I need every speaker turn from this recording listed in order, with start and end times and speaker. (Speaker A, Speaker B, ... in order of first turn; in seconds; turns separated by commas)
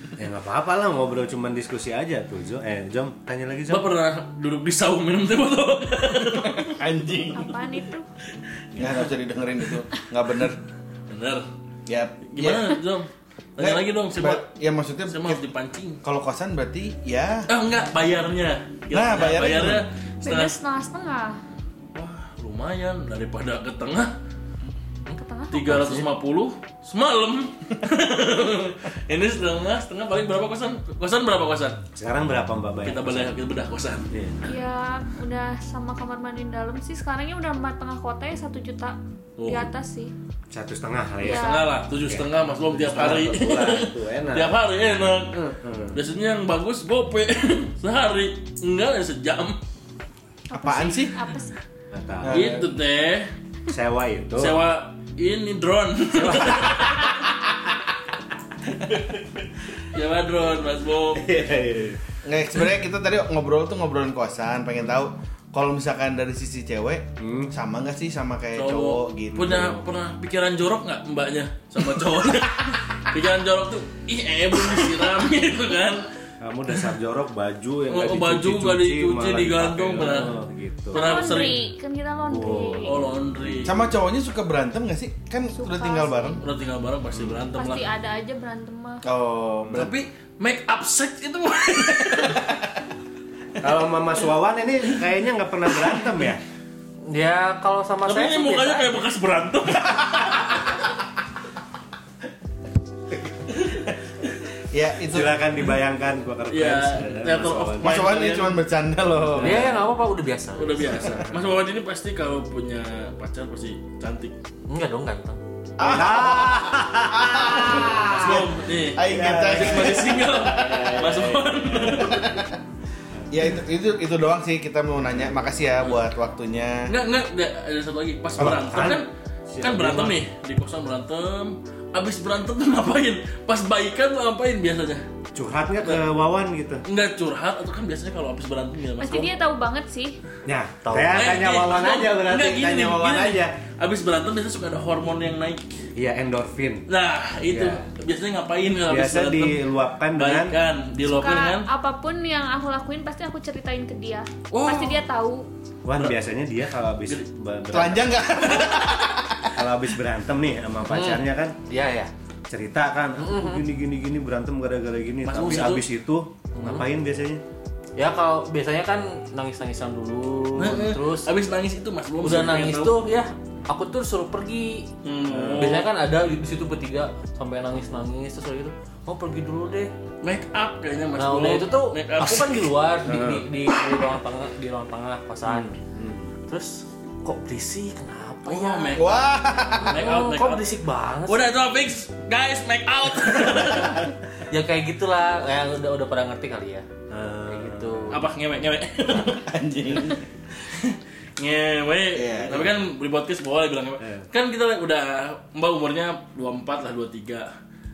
Speaker A: 0.2-3.9, Speaker B: 3.7-6.8, Speaker C: 6.7-7.5, Speaker D: 7.3-8.1, Speaker B: 8.7-9.1, Speaker C: 8.8-10.6, Speaker B: 11.1-11.4, Speaker C: 11.9-12.7, Speaker B: 12.3-14.5, Speaker C: 13.6-15.4, Speaker B: 15.1-16.0, Speaker C: 16.0-17.5, Speaker B: 17.5-20.5, Speaker C: 18.9-19.8, Speaker D: 20.2-21.4, Speaker B: 21.9-24.1, Speaker D: 25.1-25.8, Speaker B: 25.5-31.8, Speaker E: 25.6-26.1, Speaker A: 31.9-33.4, Speaker B: 32.8-34.1, Speaker D: 34.4-40.1, Speaker B: 39.4-39.7, Speaker A: 40.5-44.5, Speaker D: 41.2-41.7, Speaker B: 41.2-49.6, Speaker A: 45.4-46.0, Speaker D: 50.5-51.5, Speaker C: 50.5-51.1, Speaker A: 51.9-52.5, Speaker C: 52.2-52.8, Speaker B: 52.3-53.3, Speaker A: 53.7-54.6, Speaker B: 54.4-57.2, Speaker A: 56.1-57.2, Speaker B: 59.9-61.5, Speaker A: 61.1-62.0, Speaker C: 62.2-69.8, Speaker A: 67.2-67.5, Speaker B: 68.5-76.0, Speaker A: 76.4-81.2, Speaker B: 77.9-80.3, Speaker B: 80.9-81.6, Speaker D: 80.9-83.0, Speaker A: 82.3-83.7, Speaker B: 82.8-83.7, Speaker C: 83.6-86.4, Speaker D: 85.5-86.4, Speaker B: 86.4-87.9, Speaker A: 87.1-87.4, Speaker D: 87.6-89.0, Speaker C: 89.0-89.9, Speaker B: 89.7-92.5, Speaker A: 93.6-96.4, Speaker E: 97.1-99.0, Speaker B: 98.1-100.8, Speaker C: 104.7-105.4, Speaker A: 105.1-107.9, Speaker B: 106.5-108.6, Speaker C: 107.8-109.7, Speaker A: 109.3-109.8, Speaker E: 109.4-111.1, Speaker B: 110.5-114.3, Speaker E: 114.7-115.4, Speaker C: 115.8-120.5, Speaker A: 115.8-118.4, Speaker B: 118.0-122.3, Speaker A: 119.0-122.0, Speaker C: 121.8-122.5, Speaker C: 123.3-126.9, Speaker B: 126.9-129.1, Speaker A: 128.4-130.2, Speaker B: 129.6-135.0, Speaker A: 135.3-136.8, Speaker B: 136.8-139.3, Speaker D: 139.0-140.2, Speaker A: 140.4-143.5, Speaker E: 140.8-141.2, Speaker B: 141.0-145.8, Speaker A: 145.9-146.8, Speaker B: 146.9-151.7, Speaker A: 147.5-147.8, Speaker A: 148.8-150.6, Speaker D: 151.0-155.5, Speaker B: 154.5-155.0, Speaker A: 155.8-158.4, Speaker B: 155.9-156.2, Speaker C: 157.7-159.7, Speaker A: 159.6-161.6, Speaker E: 160.8-162.1, Speaker A: 162.5-167.4, Speaker E: 163.2-163.6, Speaker B: 165.2-165.8, Speaker E: 166.6-166.8, Speaker E: 168.0-171.3, Speaker B: 170.6-172.9, Speaker E: 172.2-174.9, Speaker B: 175.0-175.9, Speaker A: 175.2-175.8, Speaker E: 175.6-179.9, Speaker B: 180.2-182.7, Speaker E: 181.1-185.8, Speaker A: 183.0-183.4, Speaker A: 185.4-186.3, Speaker E: 186.4-189.1, Speaker B: 188.4-189.2, Speaker C: 188.9-190.0, Speaker E: 189.7-191.4, Speaker B: 189.8-190.7, Speaker B: 191.2-194.1, Speaker E: 194.5-196.8, Speaker A: 197.1-198.2, Speaker E: 197.5-198.2, Speaker B: 198.1-199.5, Speaker C: 199.2-200.2, Speaker B: 200.1-207.5, Speaker C: 202.1-202.7